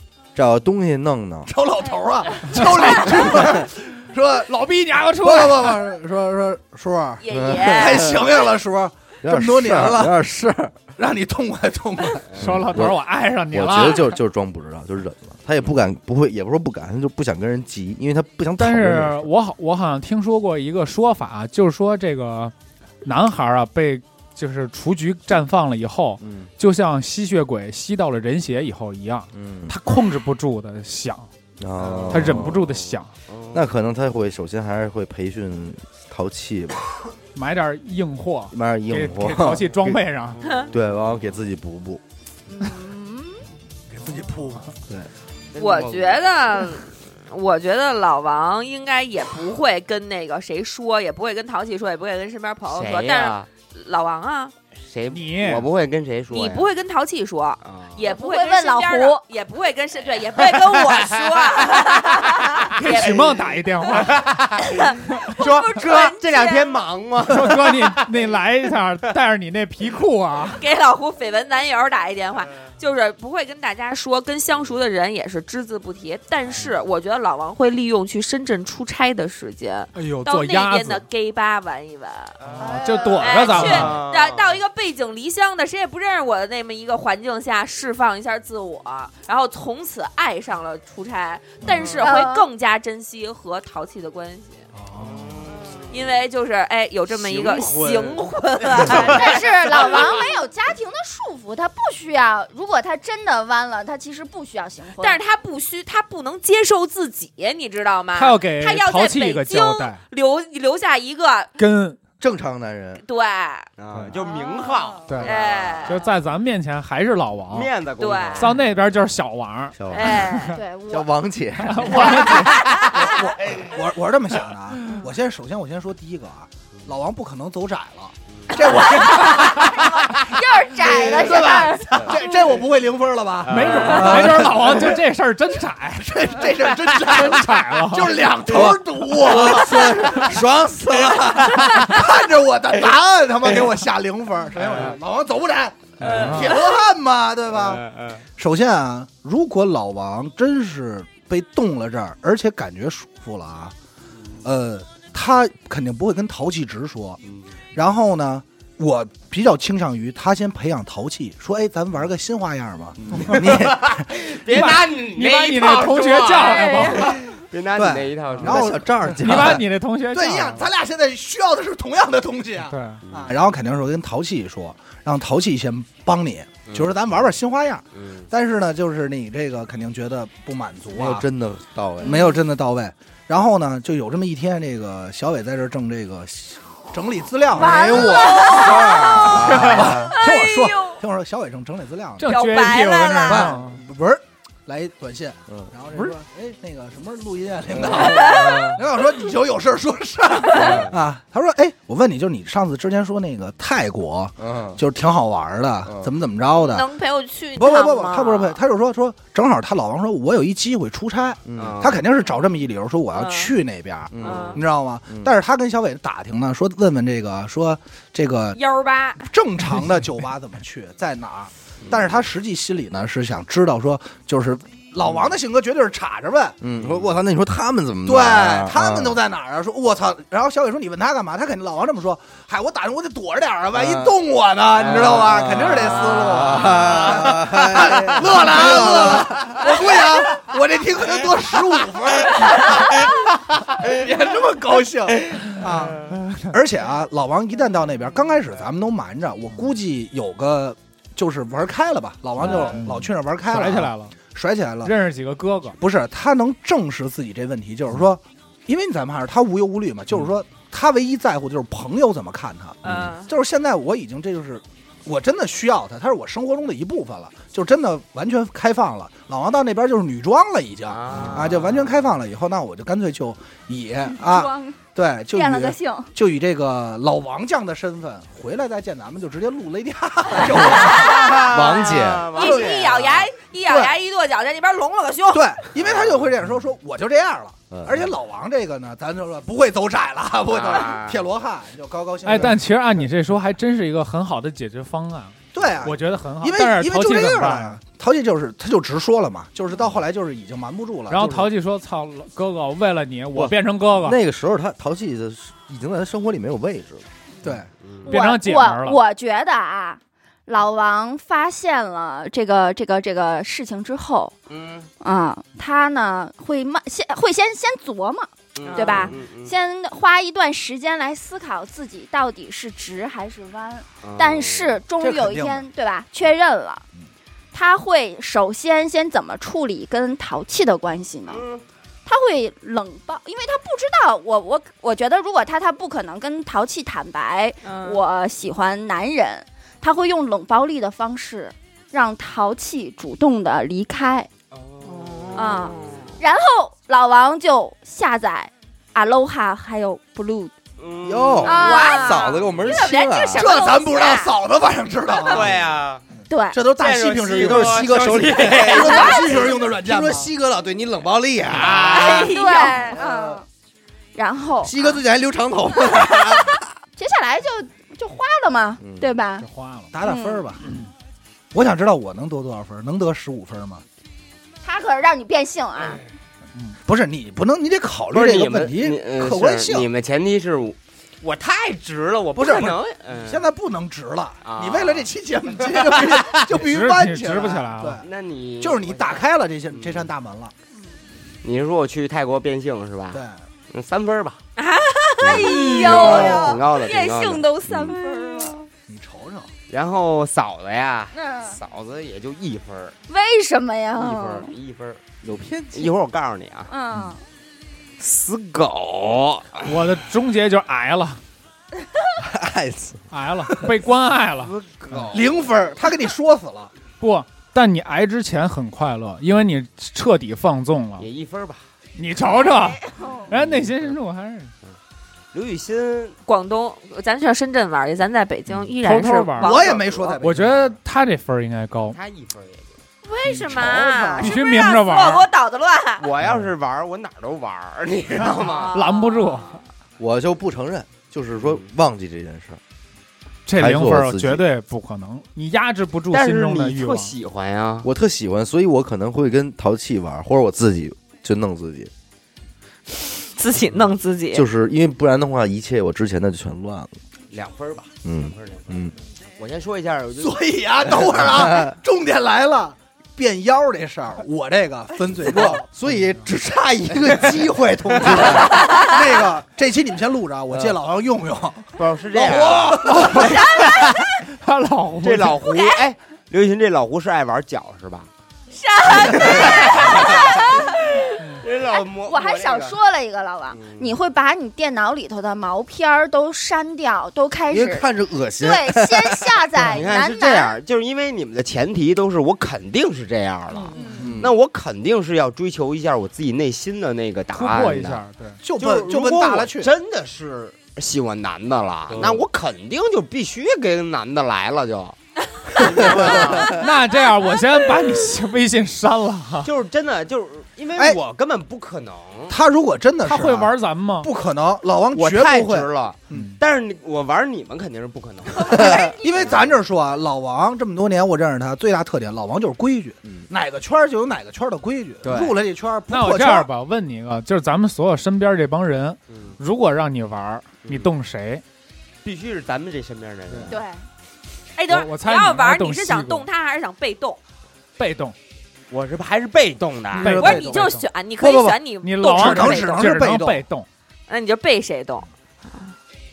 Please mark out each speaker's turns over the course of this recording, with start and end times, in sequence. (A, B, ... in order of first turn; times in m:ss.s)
0:00.4-0:01.5 A
0:01.5-0:04.5 B
0:02.5-0:03.4 C
0:04.5-0:05.8 C
0:05.2-0:10.2 B
0:07.2-0:08.4 D
0:07.3-0:08.3 A
0:09.2-0:10.8 A
0:11.0-0:12.3 B
0:12.4-0:13.0 A
0:12.4-0:14.2 C
0:13.5-0:19.3 A
0:18.6-0:22.5 C
0:23.0-0:31.3 C
0:26.2-0:26.5 A
0:29.3-0:29.8 A
0:31.6-0:32.6 A
0:31.8-0:32.7 E
0:32.1-0:33.1 C
0:33.3-0:33.6 E
0:33.5-0:36.9 A
0:37.4-0:40.4 C
0:38.5-0:40.0 A
0:40.4-0:40.7 E
0:40.7-0:42.0 A
0:42.5-0:43.4 F
0:43.9-0:44.7 B
0:45.6-0:46.7 E
0:45.6-0:54.5 D
0:52.7-0:53.5 E
0:54.8-0:56.7 E
0:55.1-0:55.7 C
0:56.3-1:03.3 D
0:57.6-0:58.0 E
0:58.0-0:59.2 F
1:00.4-1:08.0 E
1:02.8-1:04.3 C
1:04.0-1:06.8 D
1:07.3-1:10.6 C
1:10.6-1:22.4 D
1:20.0-1:21.0 C
1:22.4-1:22.7 E
1:22.6-1:24.0 C
1:22.6-1:23.3 F
1:23.2-1:34.6 D
1:23.4-1:24.6 E
1:31.7-1:32.0 E
1:32.0-1:32.5 F
1:34.8-1:35.2 B
1:35.0-1:36.1 E
1:35.9-1:39.4 D
1:37.2-1:40.2 E
1:39.1-1:45.2 F
1:45.0-1:51.5 D
1:48.2-1:50.0 C
1:51.6-1:52.0 C
1:52.2-1:53.0 A
1:53.0-1:53.7 D
1:53.8-1:56.0 E
1:54.3-1:55.0 F
1:55.2-1:56.0 D
1:55.9-1:57.7 C
1:57.5-1:58.6 E
1:58.0-1:58.5 D
1:58.4-2:00.6 C
1:59.8-2:02.4 A
1:59.9-2:00.6 D
2:00.6-2:01.1 F
2:01.6-2:02.6 C
2:02.9-2:10.1 B
2:08.3-2:08.8 E
2:09.5-2:12.0 F
2:10.8-2:15.0 B
2:13.5-2:14.2 E
2:13.5-2:18.2 C
2:16.0-2:27.9 B
2:18.5-2:21.6 A
2:26.0-2:26.5 E
2:26.0-2:26.5 C
2:27.5-2:28.2 E
2:28.4-2:33.7 B
2:34.4-2:37.2 B
2:37.2-2:37.5 E
2:37.8-2:44.1 B
2:43.1-2:48.8 E
2:44.4-2:47.3 C
2:47.8-2:49.6 B
2:48.4-2:49.6 A
2:49.2-2:50.7 C
2:50.1-3:01.3 B
2:52.7-2:53.0 C
2:53.1-2:53.4 E
2:56.7-2:57.1 E
2:57.9-2:58.3 E
3:00.9-3:02.2 A
3:02.0-3:08.3 B
3:02.0-3:02.4 F
3:07.6-3:10.1 A
3:07.6-3:09.1 F
3:08.6-3:11.0 D
3:09.1-3:12.3 B
3:12.2-3:13.8 C
3:12.3-3:13.5 D
3:13.3-3:26.9 B
3:17.7-3:18.8 A
3:20.6-3:20.9 A
3:20.6-3:20.9 E
3:24.4-3:24.8 A
3:26.6-3:28.6 D
3:27.6-3:38.6 B
3:31.5-3:31.9 A
3:31.6-3:32.0 E
3:33.1-3:33.5 D
3:34.1-3:35.3 A
3:34.2-3:34.6 E
3:34.3-3:34.6 D
3:38.5-3:39.2 D
3:39.2-3:46.6 B
3:41.8-3:42.2 E
3:46.6-3:49.2 A
3:46.8-3:47.1 E
3:48.1-4:14.9 B
3:53.7-3:54.2 A
3:54.8-3:59.5 A
4:06.1-4:06.4 C
4:12.4-4:14.2 C
4:14.8-4:15.8 C
4:15.8-4:41.6 B
4:22.9-4:23.3 D
4:30.9-4:31.9 E
4:34.2-4:34.8 F
4:35.3-4:36.1 F
4:40.8-4:45.5 D
4:41.2-4:43.3 E
4:41.4-4:42.4 A
4:42.4-4:42.7 B
4:43.7-4:43.9 B
4:45.3-4:52.6 B
4:45.8-4:46.3 E
4:47.7-4:48.1 A
4:50.5-4:51.2 E
4:52.2-4:57.8 C
4:55.5-5:01.5 B
5:01.1-5:04.2 C
5:03.3-5:07.1 A
5:07.8-5:08.1 E
5:08.0-5:14.3 F
5:08.1-5:09.0 C
5:14.5-5:14.9 E
5:15.0-5:26.8 F
5:18.6-5:19.5 E
5:18.6-5:19.2 D
5:24.0-5:24.8 E
5:25.0-5:25.7 B
5:27.5-5:31.4 F
5:31.3-5:31.6 E
5:32.1-5:44.3 F
5:37.6-5:38.0 D
5:44.5-5:46.2 E
5:44.8-5:45.8 D
5:45.4-5:50.5 F
5:50.8-5:51.8 E
5:51.0-5:53.5 A
5:51.4-5:53.0 F
5:51.5-5:54.3 D
5:53.4-5:55.7 B
5:55.3-5:56.0 E
5:56.2-6:00.3 B
5:56.3-5:56.7 F
5:56.7-5:59.4 E
5:57.8-6:02.3 A
5:58.7-5:59.2 F
6:01.6-6:02.2 E
6:01.8-6:03.0 D
6:02.0-6:03.4 F
6:03.0-6:03.4 A
6:04.2-6:04.8 F
6:04.6-6:06.6 A
6:07.0-6:09.5 F
6:08.8-6:09.1 A
6:09.4-6:09.9 C
6:09.9-6:10.7 B
6:10.0-6:10.5 F
6:11.5-6:13.8 B
6:14.6-6:16.0 F
6:16.8-6:19.9 B
6:18.1-6:23.4 E
6:22.4-6:28.1 B
6:24.4-6:25.1 E
6:25.7-6:26.4 E
6:26.5-6:28.0 C
6:28.0-6:30.1 E
6:28.6-6:30.5 B
6:31.4-6:34.4 E
6:34.6-6:36.3 D
6:35.2-6:38.7 F
6:35.2-6:36.4 A
6:35.3-6:38.0 E
6:38.9-6:39.5 B
6:39.7-6:43.0 E
6:41.1-6:41.6 F
6:43.1-6:44.5 F
6:44.0-6:45.0 E
6:45.2-6:45.9 A
6:45.7-6:46.7 E
6:46.7-6:47.2 F
6:48.0-6:49.7 E
6:49.6-6:51.2 C
6:52.2-6:53.0 A
6:53.1-6:55.1 C
6:54.4-6:55.5 E
6:55.1-6:56.7 B
6:57.0-7:01.1 C
7:01.0-7:01.7 E
7:02.0-7:04.5 C
7:02.8-7:03.3 F
7:03.3-7:03.9 E
7:05.3-7:06.2 E
7:06.3-7:10.2 D
7:08.8-7:09.6 C
7:09.4-7:10.8 B
7:09.6-7:10.1 E
7:10.2-7:12.0 C
7:11.9-7:12.8 E
7:13.0-7:16.1 D
7:13.4-7:14.4 B
7:14.2-7:15.3 C
7:16.0-7:19.6 E
7:18.4-7:19.2 D
7:18.7-7:19.6 C
7:20.0-7:22.6 A
7:23.5-7:27.1 C
7:23.6-7:24.5 A
7:26.1-7:27.9 E
7:27.8-7:31.9 A
7:33.3-7:34.4 D
7:34.3-7:37.0 A
7:37.3-7:40.4 E
7:38.0-7:38.9 A
7:40.2-7:45.6 B
7:41.3-7:41.7 A
7:45.2-7:48.6 A
7:47.0-7:53.7 B
7:50.5-7:50.8 A
7:51.8-7:54.0 E
7:54.3-7:55.4 C
7:55.0-7:58.1 E
7:58.5-8:01.1 D
7:59.0-8:00.2 E
7:59.4-8:00.7 F
8:01.4-8:02.8 E
8:02.0-8:10.6 F
8:03.5-8:03.9 E
8:07.5-8:09.8 A
8:09.6-8:18.0 E
8:13.8-8:14.1 B
8:14.0-8:14.3 A
8:17.4-8:18.4 C
8:18.4-8:19.7 B
8:18.5-8:25.0 E
8:21.9-8:22.2 A
8:25.6-8:26.7 E
8:25.8-8:29.5 C
8:29.4-8:32.4 E
8:32.3-8:36.3 B
8:33.0-8:34.1 C
8:34.9-8:39.5 E
8:38.3-8:39.5 F
8:38.7-8:46.5 B
8:45.0-8:45.4 E
8:45.9-8:51.4 C
8:49.1-8:49.4 E
8:52.0-8:53.6 E
8:53.5-8:53.8 F
8:54.6-8:57.2 D
8:54.7-8:56.3 C
8:57.8-8:58.2 C
8:58.7-9:00.2 E
9:00.0-9:00.9 C
9:00.0-9:00.6 B
9:00.0-9:02.8 D
9:01.2-9:01.6 B
9:01.8-9:03.7 C
9:02.1-9:03.4 B
9:04.1-9:05.7 D